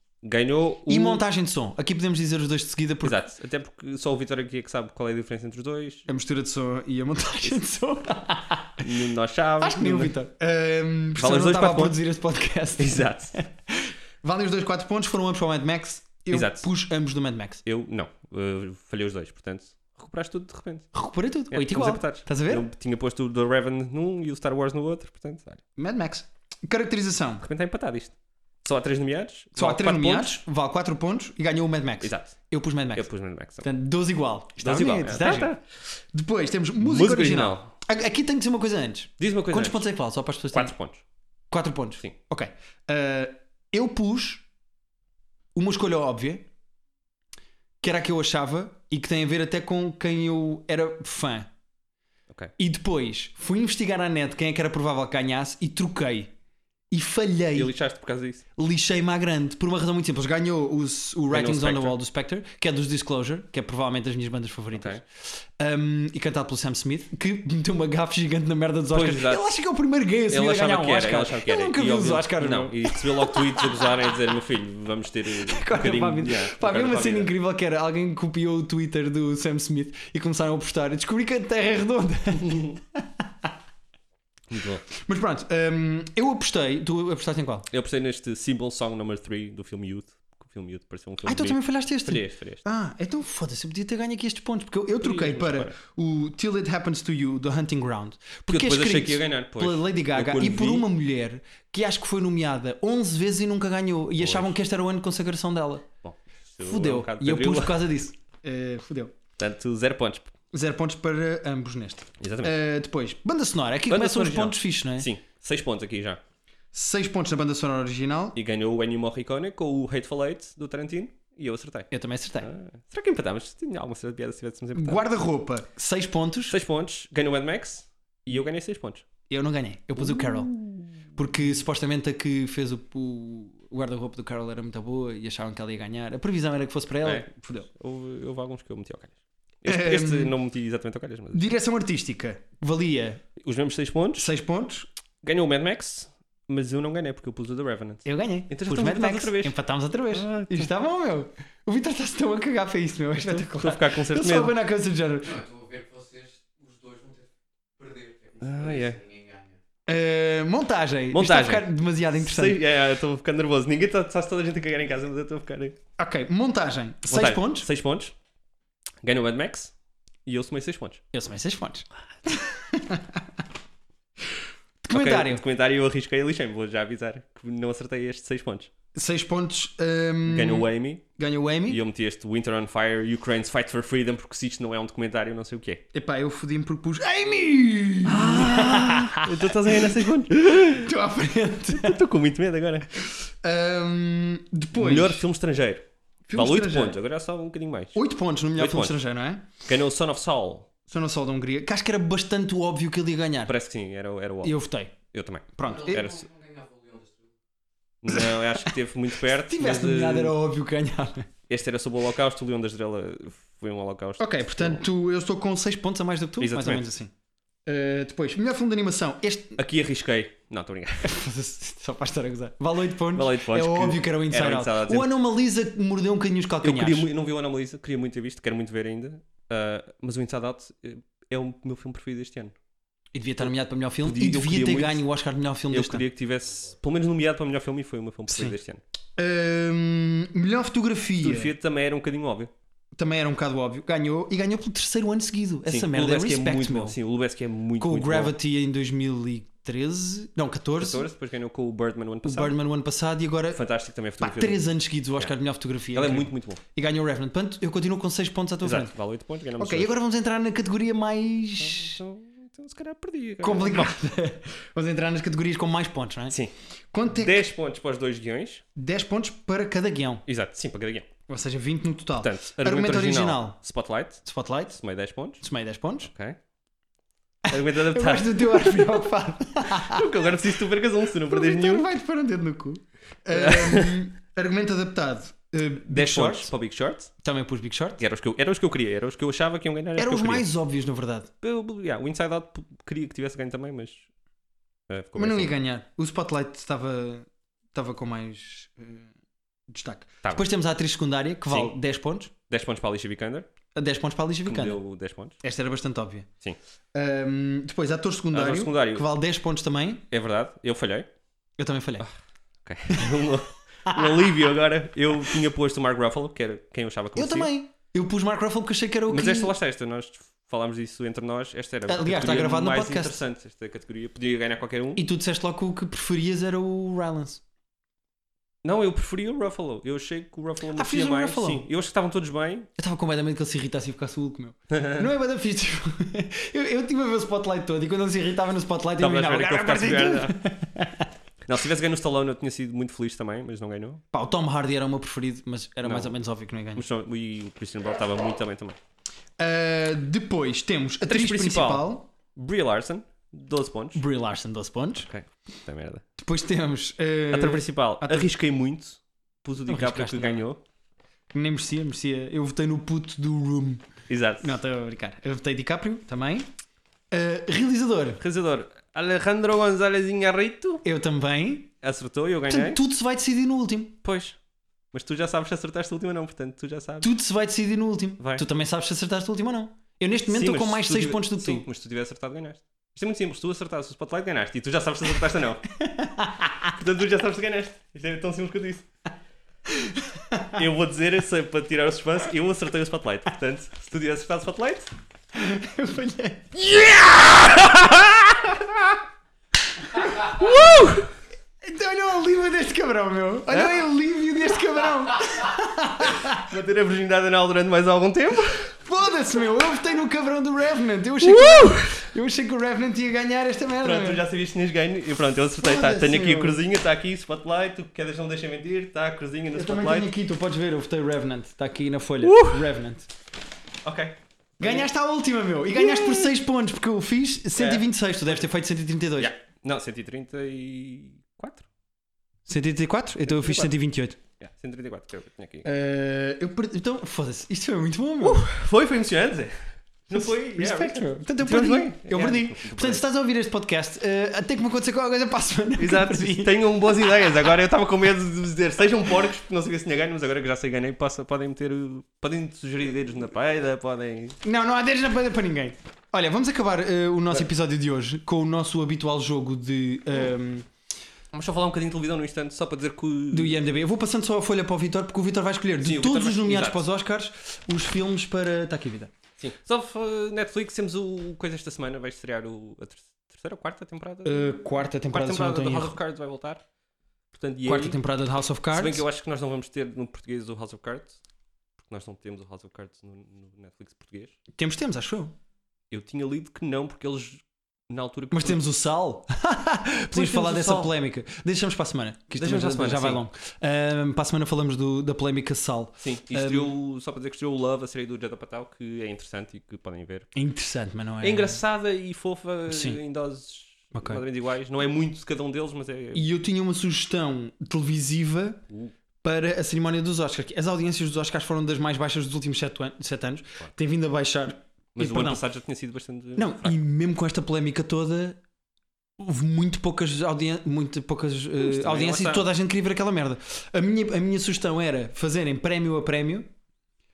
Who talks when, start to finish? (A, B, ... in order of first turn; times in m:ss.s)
0:00.2-0:01.2 A
0:00.9-0:03.2 B
0:03.0-0:06.1 A
0:06.1-0:08.9 B
0:08.8-0:10.1 A
0:09.6-0:17.6 B
0:11.2-0:12.0 A
0:12.8-0:13.4 A
0:16.3-0:16.7 A
0:17.6-0:20.9 A
0:20.9-0:22.7 B
0:21.5-0:25.6 A
0:25.8-0:27.4 B
0:27.4-0:30.4 A
0:29.6-0:33.1 B
0:32.0-0:32.4 A
0:32.9-0:33.7 A
0:33.6-0:35.5 B
0:34.6-0:35.6 A
0:36.1-0:40.7 B
0:36.8-0:37.7 A
0:39.2-0:39.9 A
0:40.5-0:41.0 A
0:41.5-0:44.4 B
0:45.5-0:46.5 B
0:47.8-0:51.5 B
0:52.6-0:56.3 B
0:56.9-0:57.7 B
0:57.5-0:58.4 A
0:58.6-1:14.2 B
1:01.3-1:02.0 A
1:04.7-1:05.0 A
1:08.9-1:09.4 A
1:10.3-1:17.3 A
1:15.3-1:23.5 B
1:22.4-1:22.8 A
1:24.5-1:24.8 A
1:24.9-1:27.7 B
1:27.7-1:32.6 A
1:31.2-1:45.9 B
1:35.0-1:35.7 A
1:38.5-1:40.9 A
1:44.2-1:44.5 A
1:46.0-1:47.9 A
1:46.6-1:49.1 B
1:49.4-1:50.3 A
1:50.5-1:55.1 B
1:52.2-1:52.5 A
1:53.9-1:56.2 A
1:56.7-1:58.4 B
1:58.3-2:01.9 A
2:01.9-2:02.5 B
2:02.4-2:05.0 A
2:04.7-2:06.6 B
2:06.5-2:09.0 A
2:09.3-2:10.5 B
2:10.0-2:11.0 A
2:11.1-2:17.7 B
2:17.0-2:21.5 A
2:19.6-2:20.3 B
2:21.3-2:23.2 B
2:23.4-2:24.3 A
2:24.2-2:24.9 B
2:25.2-2:29.6 A
2:28.0-2:35.4 B
2:30.1-2:30.7 A
2:33.2-2:34.5 A
2:35.2-2:39.6 C
2:38.4-2:39.0 A
2:39.9-2:42.6 B
2:41.1-2:45.8 A
2:46.0-2:47.7 B
2:47.1-2:48.1 A
2:49.0-2:49.7 A
2:50.2-2:51.0 A
2:51.1-2:53.2 B
2:54.8-2:55.4 B
2:54.9-2:58.7 A
2:58.9-3:01.8 B
3:00.3-3:01.0 A
3:01.7-3:05.8 A
3:05.9-3:09.9 B
3:08.0-3:10.9 A
3:10.7-3:12.0 B
3:11.7-3:12.9 A
3:13.2-3:15.2 B
3:14.7-3:18.0 A
3:16.3-3:17.0 B
3:17.9-3:19.5 B
3:18.6-3:19.0 A
3:19.6-3:20.7 A
3:20.9-3:23.5 B
3:23.4-3:24.5 A
3:24.4-3:24.9 B
3:25.1-3:26.3 A
3:25.6-3:26.1 B
3:25.6-3:27.3 C
3:28.0-3:30.4 A
3:28.1-3:28.4 B
3:29.4-3:31.3 B
3:31.5-3:34.8 A
3:34.2-3:37.1 B
3:36.4-3:36.9 A
3:37.6-3:39.6 B
3:39.6-3:41.2 A
3:41.0-3:47.1 B
3:43.1-3:45.1 A
3:46.6-3:52.5 A
3:53.1-3:56.0 B
3:54.0-3:55.0 A
3:55.7-3:58.8 A
3:58.3-3:58.6 B
3:59.2-4:01.5 B
4:01.2-4:02.5 A
4:02.9-4:07.0 B
4:05.7-4:08.3 A
4:07.8-4:11.0 B
4:10.8-4:12.5 A
4:12.2-4:13.6 B
4:13.5-4:15.3 A
4:14.2-4:18.9 B
4:15.9-4:16.6 A
4:18.6-4:19.9 A
4:19.6-4:22.0 B
4:21.6-4:24.0 A
4:23.4-4:26.4 B
4:26.9-4:27.4 B
4:27.1-4:28.6 A
4:28.8-4:30.2 B
4:30.2-4:31.1 A
4:31.3-4:33.6 B
4:32.2-4:35.4 A
4:34.2-4:34.8 B
4:35.4-4:36.1 B
4:36.0-4:36.4 A
4:37.5-4:40.1 B
4:37.5-4:39.0 A
4:39.6-4:41.9 A
4:41.3-4:46.5 B
4:43.3-4:44.0 A
4:45.9-4:47.1 A
4:47.2-4:48.0 B
4:48.0-4:50.4 A
4:50.0-4:51.3 B
4:51.4-4:54.1 A
4:54.9-4:55.5 A
4:55.2-4:59.1 B
4:59.7-5:02.3 B
5:01.5-5:01.7 A
5:02.5-5:03.5 A
5:03.7-5:04.8 B
5:04.4-5:05.4 A
5:05.4-5:06.3 B
5:06.9-5:10.0 B
5:08.3-5:09.0 A
5:10.1-5:11.1 A
5:11.6-5:12.0 B
5:12.6-5:17.5 A
5:13.9-5:14.3 B
5:17.2-5:19.5 B
5:19.1-5:25.0 A
5:21.9-5:23.2 B
5:25.0-5:27.4 B
5:28.6-5:32.7 A
5:30.7-5:31.7 B
5:32.8-5:41.1 B
5:34.7-5:35.0 A
5:39.0-5:40.4 A
5:41.4-5:44.0 A
5:44.1-5:46.8 B
5:45.8-5:46.1 A
5:46.7-5:48.8 A
5:49.4-5:52.1 B
5:51.0-5:54.0 A
5:53.9-5:55.1 B
5:55.0-5:56.0 A
5:56.2-5:58.3 B
5:57.3-6:00.6 A
5:59.7-6:00.4 B
6:01.3-6:03.8 B
6:04.1-6:04.6 A
6:04.4-6:06.5 B
6:07.1-6:08.2 B
6:08.2-6:10.8 A
6:10.8-6:11.7 B
6:11.8-6:12.8 A
6:12.5-6:14.0 B
6:14.0-6:14.4 A
6:14.9-6:17.1 A
6:17.0-6:21.6 B
6:18.2-6:18.4 A
6:20.3-6:25.7 A
6:25.8-6:26.6 B
6:26.7-6:28.9 A
6:29.8-6:30.5 B
6:30.5-6:34.9 A
6:35.3-6:36.8 B
6:36.7-6:39.0 A
6:40.0-6:41.1 A
6:40.0-6:40.8 B
6:41.6-6:46.4 B
6:43.5-6:43.8 A
6:46.1-6:48.7 A
6:48.8-6:54.2 B
6:51.2-6:52.0 A
6:53.8-7:00.1 A
6:55.6-6:56.6 B
6:59.5-7:03.1 B
7:02.2-7:02.6 A
7:03.8-7:04.9 A
7:04.6-7:09.3 B
7:05.8-7:06.3 A
7:07.6-7:07.9 A
7:09.2-7:11.7 A
7:12.5-7:14.2 B
7:13.3-7:13.7 A
7:14.4-7:15.7 A
7:15.6-7:18.4 B
7:18.2-7:23.0 A
7:20.1-7:26.6 B
7:25.8-7:34.4 A
7:34.4-7:40.7 B
7:41.3-7:43.6 A
7:43.3-7:49.1 B
7:45.8-7:46.8 A
7:49.4-7:54.6 A
7:54.2-7:56.0 B
7:55.1-7:56.6 A
7:57.3-7:58.0 A
7:57.6-7:59.0 B
7:58.7-8:01.2 A
8:01.8-8:04.4 A
8:04.5-8:05.3 B
8:05.9-8:08.6 A
8:08.3-8:16.7 B
8:10.1-8:10.9 A
8:12.3-8:13.2 A
8:16.0-8:20.3 A
8:20.3-8:21.6 B
8:21.2-8:26.2 A
8:22.7-8:23.0 B
8:23.9-8:24.2 B
8:26.1-8:28.6 B
8:29.2-8:35.4 B
8:35.0-8:36.8 A
8:36.4-8:38.4 B
8:39.2-8:46.5 B
8:41.6-8:42.4 A